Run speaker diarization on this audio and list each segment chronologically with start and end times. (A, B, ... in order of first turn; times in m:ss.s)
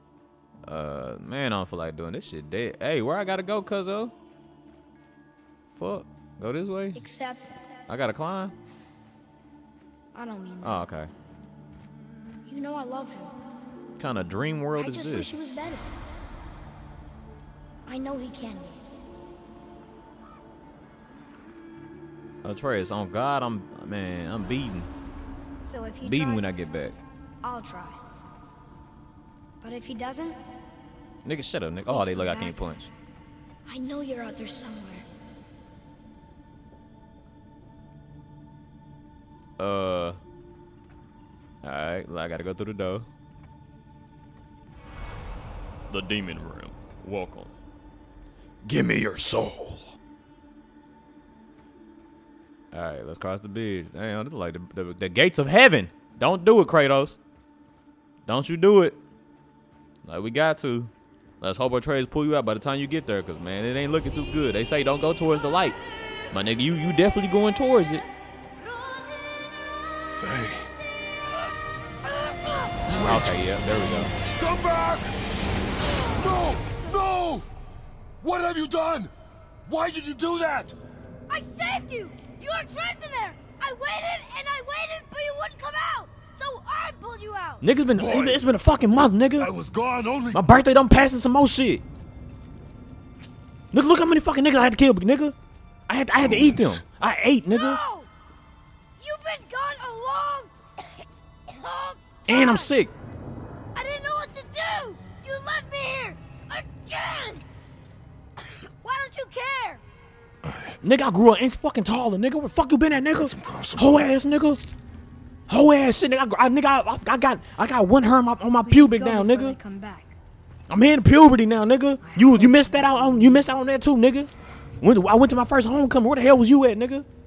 0:00.6-0:04.1 A
0:05.7-0:07.0 A
0:06.9-0:07.6 B
0:07.9-0:08.5 A
0:10.1-0:10.8 B
0:10.6-0:11.1 A
0:12.5-0:13.3 B
0:14.0-0:15.3 A
0:14.8-0:15.9 B
0:17.8-0:18.8 B
0:22.4-0:24.9 A
0:25.6-0:26.5 B
0:26.0-0:27.0 A
0:27.4-0:28.0 B
0:29.6-0:30.4 B
0:31.2-0:32.9 A
0:31.8-0:32.7 B
0:33.6-0:35.1 B
0:39.6-0:40.2 A
0:41.6-0:43.1 A
0:45.9-0:47.5 A
0:48.6-0:50.0 A
0:52.7-0:57.2 A
0:58.3-0:59.0 A
1:00.0-1:05.8 A
1:06.3-1:08.0 A
1:10.2-1:10.7 C
1:12.9-1:14.1 A
1:12.9-1:13.4 C
1:14.3-1:15.1 C
1:16.1-1:17.5 C
1:18.2-1:19.1 C
1:19.6-1:20.8 C
1:21.3-1:27.6 B
1:27.6-1:29.5 A
1:28.0-1:28.6 C
1:29.4-1:30.4 C
1:30.3-1:31.8 A
1:33.7-1:35.4 A
1:35.9-1:37.8 A
1:36.2-1:36.8 C
1:37.5-1:38.1 B
1:39.0-1:40.9 B
1:41.5-1:42.7 B
1:42.3-1:42.9 A
1:43.7-1:47.4 B
1:48.8-1:49.8 B
1:50.4-1:50.8 C
1:50.8-1:54.6 A
1:53.1-1:54.1 C
1:55.5-1:59.6 A
1:58.6-2:00.2 B
2:00.7-2:07.0 A
2:02.0-2:03.5 B